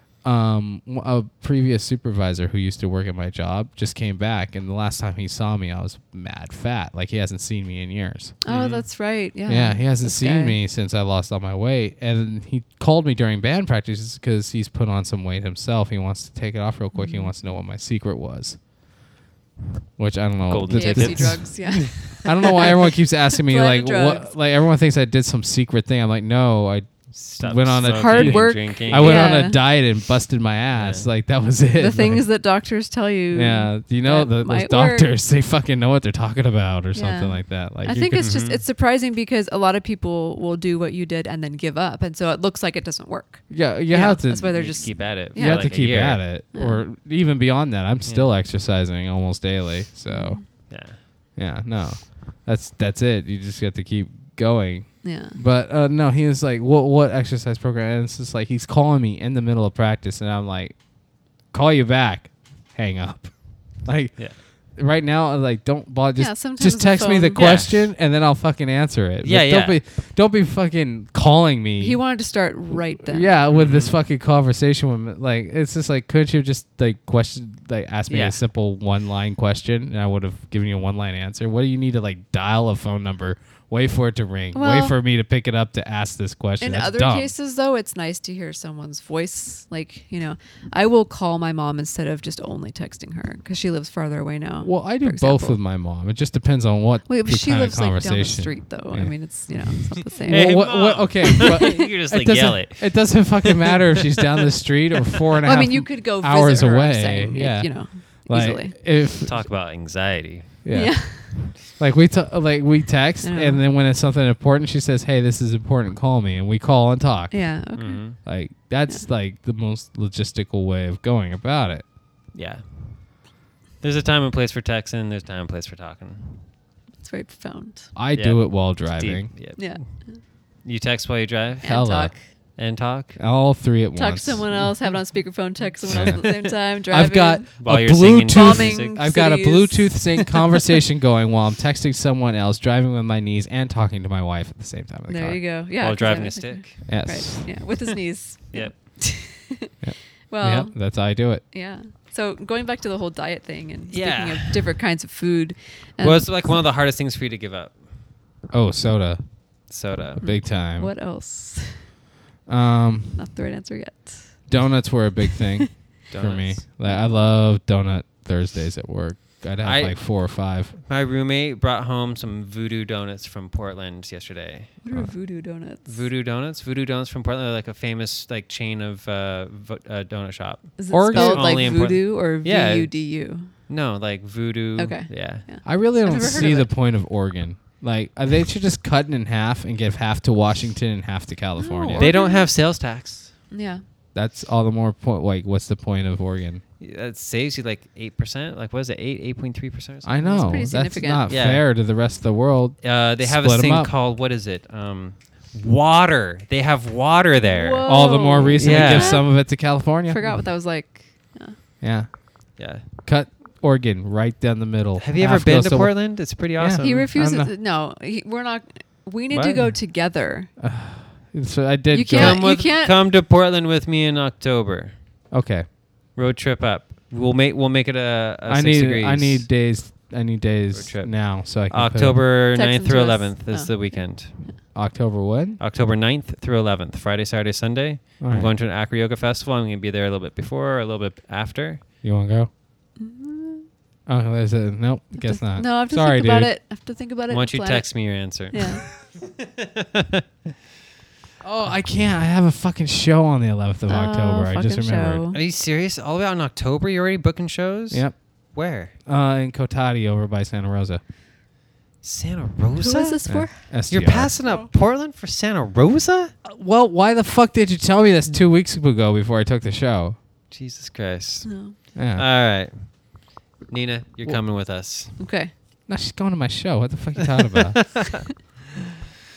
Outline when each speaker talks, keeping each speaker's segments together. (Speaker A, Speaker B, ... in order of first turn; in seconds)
Speaker A: 0.2-8.3, 9.5-18.6, 20.0-32.2, 33.3-38.2, 43.5-44.7, 45.3-50.7, 51.4-60.8, 61.5-72.0, 73.0-87.3, 94.6-109.5, 110.6-117.4, 118.2-121.8, 128.0-129.3, 131.6-132.2, 133.2-134.7, 135.9-145.4, 146.8-147.6, 149.8-151.4, 158.5-159.3, 160.2-160.9, 162.5-163.2, 164.5-170.7, 180.9-181.7, 185.6-192.1, 194.1-196.6, 200.0-203.9, 207.8-210.4, 211.8-212.1, 212.9-217.5, 220.6-222.4, 225.3-225.7, 228.5-232.2, 234.7-235.6, 238.2-238.5, 242.0-242.5, 244.1-246.5, 251.4-255.2, 257.9-258.2, 258.9-261.0, 263.3-264.3, 266.4-270.2, 271.9-272.2, 275.9-278.0
Speaker B: 8.4-10.6, 16.9-17.3, 20.7-24.3, 27.8-29.6, 31.8-35.1, 36.9-46.8, 50.1-50.4, 55.0-55.4, 66.2-67.7, 71.8-73.3, 84.5-85.0, 86.6-95.6, 97.0-100.7, 101.4-101.9, 105.4-108.8, 110.7-111.5, 113.2-113.6, 117.3-118.2, 127.0-127.9, 129.6-130.2, 131.6-132.2, 133.9-137.5, 138.3-140.6, 145.1-149.7, 150.3-150.9, 151.5-156.6, 160.2-161.9, 163.1-164.5, 165.3-165.6, 166.8-167.1, 174.8-176.0, 180.8-183.5, 184.8-186.7, 191.6-192.5, 193.5-193.8, 200.2-201.3, 207.4-211.6, 216.8-220.5, 221.9-223.0, 232.5-234.5, 243.0-243.7, 245.2-248.9, 253.9-255.4, 262.8-263.6, 271.4-271.8, 275.2-275.5
Speaker C: 8.5-8.8, 20.5-22.5, 27.1-29.3, 30.7-31.1, 38.2-38.6, 44.5-46.2, 48.0-48.3, 50.7-51.0, 67.3-67.8, 69.2-69.8, 73.5-73.9, 78.1-78.4, 100.1-103.8, 109.2-110.6, 117.8-118.2, 122.3-123.1, 123.8-126.5, 128.1-129.9, 130.6-131.9, 132.5-133.2, 135.9-136.4, 137.6-139.0, 145.8-146.9, 153.9-154.7, 156.0-157.8, 159.7-160.2, 166.1-166.6, 169.6-170.2, 170.7-174.8, 175.8-182.9, 183.7-185.4, 191.9-193.3, 196.8-200.6, 201.2-201.6, 202.8-209.2, 212.6-212.8, 215.0-217.1, 219.3-219.7, 222.1-225.0, 226.1-229.5, 230.7-234.5, 235.6-241.8, 247.3-250.2, 255.3-258.9, 262.0-266.3, 270.5-275.2, 277.8-278.3